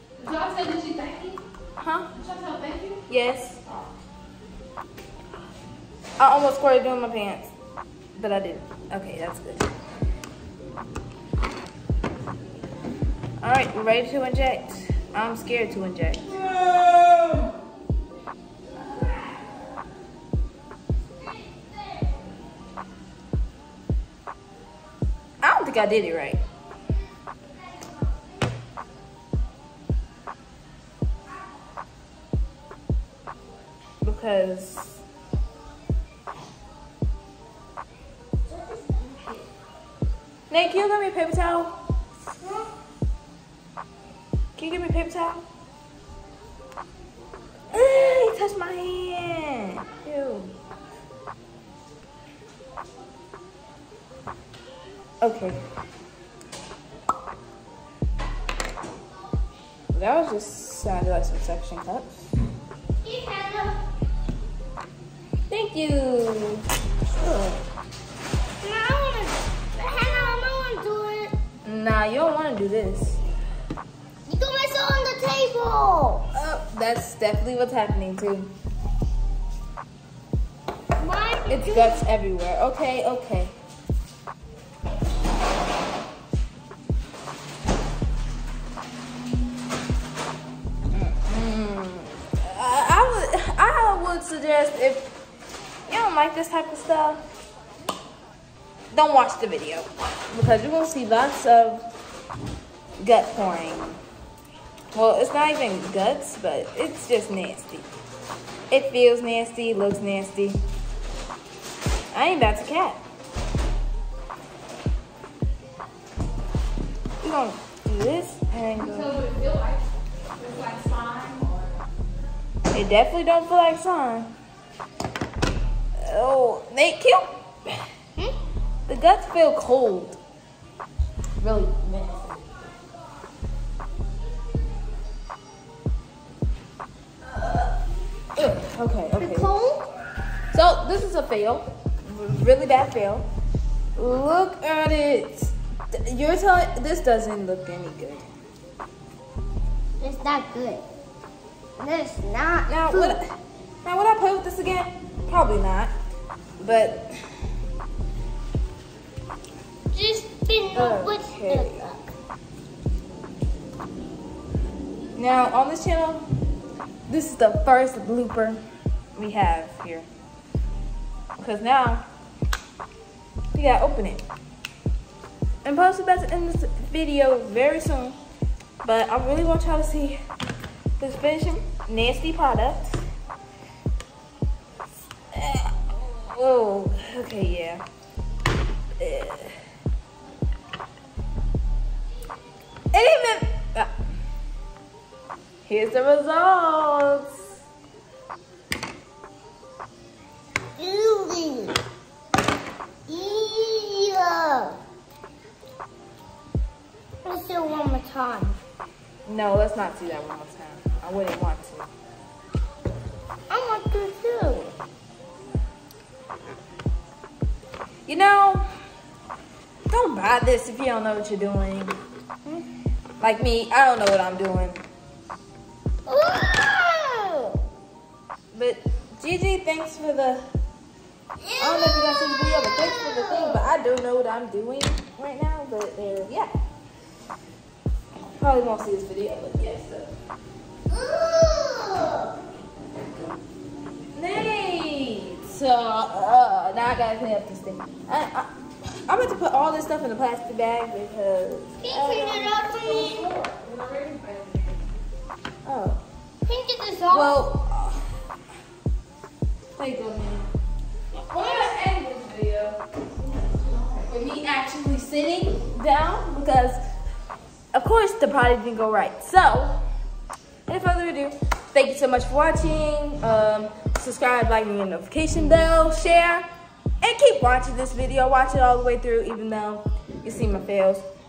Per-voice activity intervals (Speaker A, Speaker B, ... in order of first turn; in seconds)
Speaker A: 0.2-1.4, 2.2-3.0, 118.9-119.8, 120.4-121.8, 253.0-254.8
Speaker B: 1.8-2.1, 3.1-3.9, 6.2-7.5, 8.2-9.7, 13.4-17.4, 25.4-26.4, 34.0-35.0, 40.5-41.8, 44.6-45.4, 47.7-50.5, 55.2-55.6, 59.9-62.2, 65.5-67.6, 71.6-73.2, 76.3-78.5, 81.5-83.5, 90.9-95.1, 95.9-97.2, 98.9-101.9, 103.0-104.0, 104.9-107.9, 108.7-110.6, 112.1-113.0, 117.2-119.2, 122.7-124.3, 126.0-127.7, 128.9-130.2, 131.4-132.4, 137.3-137.7, 138.4-139.5, 140.5-143.3, 144.0-148.3, 152.7-153.3, 153.8-155.9, 156.6-157.2, 160.7-161.9, 165.2-166.3, 167.1-168.6, 169.2-170.1, 171.4-172.1, 173.5-174.2, 175.7-178.2, 178.8-180.2, 181.0-183.0, 185.3-187.8, 189.0-189.6, 192.9-193.9, 195.7-197.5, 209.3-211.9, 218.1-218.6, 219.9-222.0, 223.2-224.8, 228.5-230.4, 231.6-236.5, 238.4-240.1, 244.1-248.5, 249.1-252.7, 255.7-256.0, 257.1-258.1, 259.8-260.5, 261.2-262.8, 263.9-266.8, 267.7-269.8, 270.7-276.5, 277.0-281.1
Speaker C: 38.5-39.5, 42.4-42.7, 63.0-63.8, 68.6-71.3, 74.3-76.3, 81.0-82.0, 139.2-139.9, 150.0-150.8, 151.8-153.2, 159.9-162.0, 200.8-201.8, 203.1-204.8, 207.2-208.6, 213.5-214.7, 226.1-227.6, 231.4-233.7, 240.9-242.3, 251.8-253.3, 256.5-257.4, 261.4-261.7